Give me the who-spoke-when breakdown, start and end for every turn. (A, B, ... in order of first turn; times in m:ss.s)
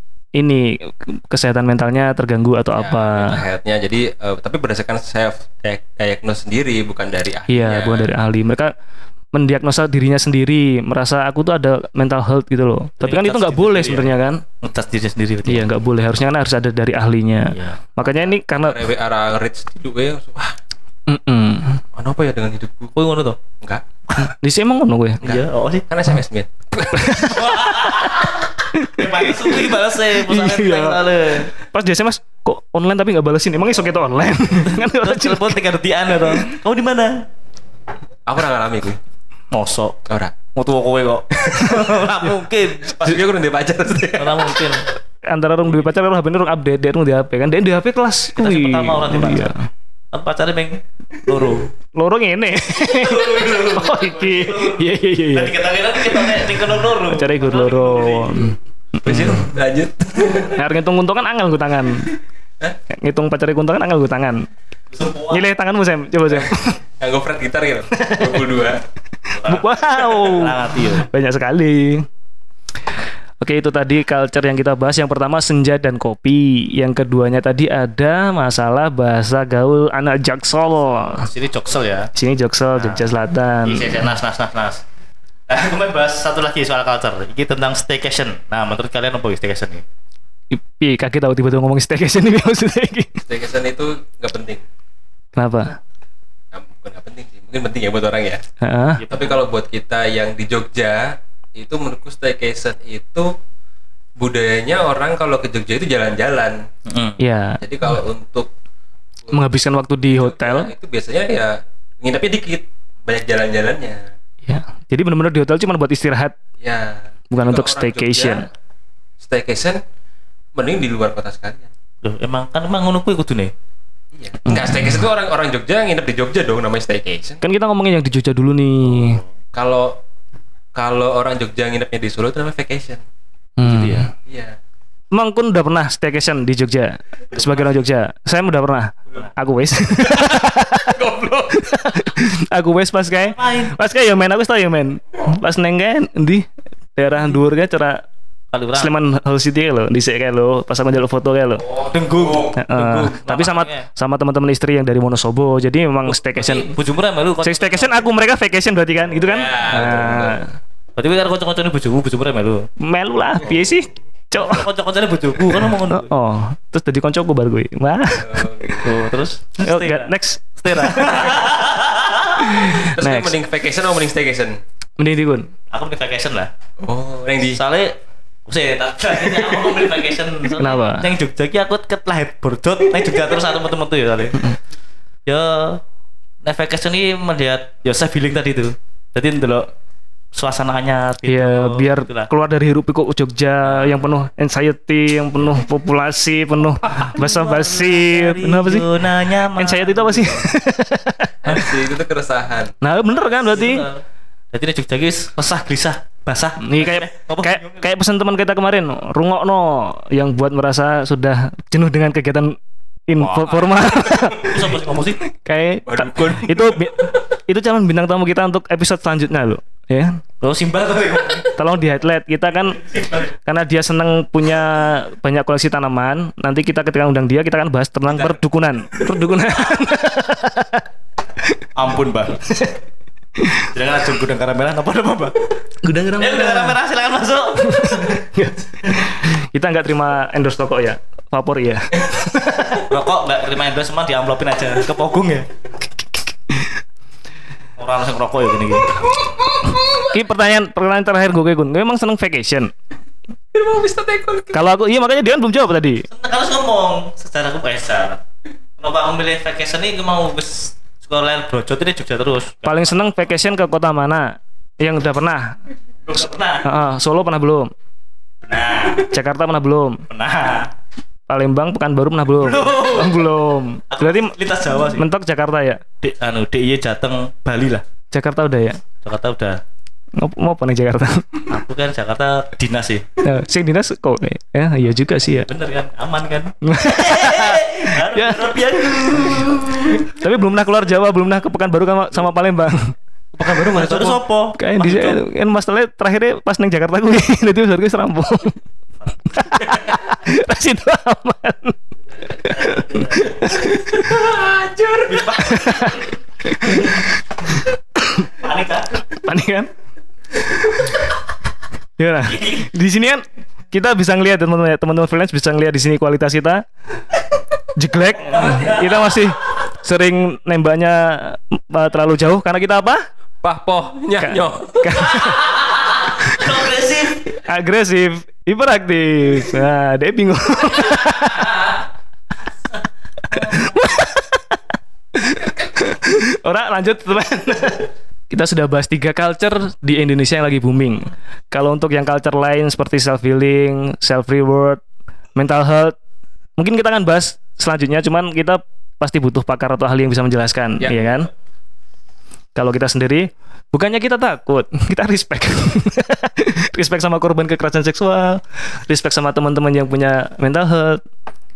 0:00.4-0:03.4 A
0:02.8-0:08.1 B
0:07.5-0:08.7 A
0:09.3-0:14.4 A
0:13.0-0:15.7 C
0:15.5-0:18.8 A
0:17.5-0:17.8 C
0:18.6-0:20.6 B
0:21.1-0:21.8 A
0:21.9-0:22.9 B
0:23.0-0:23.4 C
0:24.2-0:25.2 A
0:25.2-0:27.4 B
0:25.2-0:25.9 C
0:26.9-0:35.6 A
0:27.4-0:28.3 C
0:28.9-0:31.5 C
0:34.7-0:37.3 C
0:38.3-0:39.0 B
0:39.5-0:40.0 C
0:40.1-0:40.4 B
0:40.5-0:43.0 C
0:41.6-0:41.9 A
0:43.0-0:44.8 B
0:44.2-0:44.9 C
0:45.3-0:49.7 A
0:48.4-0:49.5 C
0:50.1-0:51.7 C
0:52.0-0:55.6 A
0:52.8-0:58.5 C
0:56.1-0:56.4 A
0:57.1-0:59.4 A
0:59.0-1:00.6 B
1:00.5-1:02.2 A
1:02.9-1:04.4 A
1:04.9-1:05.5 C
1:05.3-1:06.8 A
1:07.0-1:08.8 B
1:07.9-1:08.4 A
1:09.3-1:11.1 C
1:09.4-1:12.1 A
1:13.4-1:21.3 A
1:21.1-1:22.1 C
1:22.2-1:24.1 A
1:22.8-1:23.1 C
1:23.6-1:24.8 C
1:25.5-1:29.8 C
1:30.5-1:33.2 A
1:33.3-1:34.6 B
1:35.4-1:35.8 A
1:36.5-1:38.4 B
1:38.6-1:39.0 A
1:39.0-1:43.4 B
1:44.2-1:46.6 B
1:46.9-1:47.2 C
1:47.2-1:47.6 A
1:47.6-1:48.5 B
1:49.3-1:50.7 A
1:50.1-1:54.1 B
1:54.5-1:56.4 A
1:56.6-1:58.5 B
1:57.3-1:58.5 A
1:59.2-1:59.8 B
2:00.6-2:01.7 B
2:02.0-2:03.5 C
2:04.2-2:07.4 B
2:04.5-2:05.0 A
2:07.4-2:09.2 A
2:08.9-2:09.3 C
2:09.5-2:10.0 B
2:10.8-2:13.0 B
2:13.6-2:14.1 A
2:13.6-2:14.1 C
2:14.3-2:14.6 B
2:15.1-2:21.0 A
2:17.4-2:17.7 C
2:20.1-2:21.9 B
2:21.6-2:28.0 A
2:23.2-2:23.7 C
2:28.5-2:28.9 C
2:28.7-2:31.7 A
2:31.7-2:33.9 C
2:32.2-2:33.0 B
2:32.5-2:36.8 A
2:36.1-2:38.1 C
2:37.4-2:40.5 A
2:39.2-2:40.4 B
2:39.7-2:40.0 C
2:41.0-2:42.7 C
2:42.8-2:44.7 A
2:44.4-2:46.1 C
2:45.7-2:48.8 A
2:48.2-2:49.0 B
2:48.8-2:50.1 C
2:49.6-2:51.4 A
2:50.7-2:52.5 C
2:52.4-2:53.4 A
2:52.7-2:54.6 B
2:55.0-2:55.5 A
2:55.7-2:56.5 C
2:56.8-2:57.6 B
2:57.5-2:57.9 C
2:58.5-3:04.5 C
3:00.6-3:01.1 A
3:05.3-3:05.8 C
3:06.4-3:09.7 C
3:10.3-3:12.3 C
3:11.3-3:18.9 A
3:16.8-3:20.4 C
3:19.6-3:21.7 A
3:21.4-3:22.7 B
3:22.8-3:23.8 A
3:23.1-3:27.9 C
3:26.6-3:32.6 A
3:33.1-3:34.7 A
3:34.4-3:35.3 C
3:35.4-3:40.2 A
3:35.8-3:37.1 B
3:40.4-3:41.6 C
3:41.6-3:42.9 A
3:43.4-3:50.8 A
3:51.8-3:52.5 C
3:53.4-3:53.7 A
3:53.7-3:55.5 C
3:55.8-3:56.8 A
3:56.2-3:58.2 C
3:57.6-4:02.9 A
4:02.8-4:05.5 C
4:07.8-4:09.0 C
4:09.8-4:12.7 A
4:13.5-4:14.7 B
4:14.5-4:16.1 A
4:16.1-4:18.2 C
4:18.8-4:23.1 C
4:22.7-4:25.6 A
4:26.1-4:26.7 C
4:26.6-4:27.7 A
4:28.4-4:29.1 C
4:29.1-4:30.0 A
4:30.1-4:30.7 C
4:31.3-4:34.4 A
4:32.4-4:33.3 C
4:33.9-4:35.1 C
4:34.9-4:35.8 A
4:36.0-4:37.8 C
4:38.1-4:38.8 A
4:39.0-4:39.6 C
4:40.2-4:41.5 A
4:41.5-4:43.1 C
4:43.2-4:45.5 A
4:45.4-4:50.1 C
4:46.6-4:53.0 A
4:53.4-4:54.2 B
4:53.7-4:55.2 C
4:54.6-4:58.6 A
4:59.3-5:01.8 A
5:02.3-5:04.2 A
5:02.6-5:03.4 C
5:03.9-5:05.5 B
5:05.1-5:06.1 C
5:05.4-5:07.1 A
5:08.0-5:08.3 A
5:08.2-5:09.0 C
5:09.1-5:09.7 A
5:12.0-5:16.6 A
5:12.3-5:12.7 C
5:17.8-5:23.1 A
5:18.3-5:19.3 C
5:23.4-5:25.2 B
5:24.2-5:26.4 A
5:25.1-5:27.4 C
5:27.5-5:31.7 A
5:33.3-5:34.6 A
5:35.1-5:44.8 A
5:45.4-5:46.0 A
5:46.6-5:51.3 A
5:50.8-5:51.3 B
5:52.6-6:01.0 A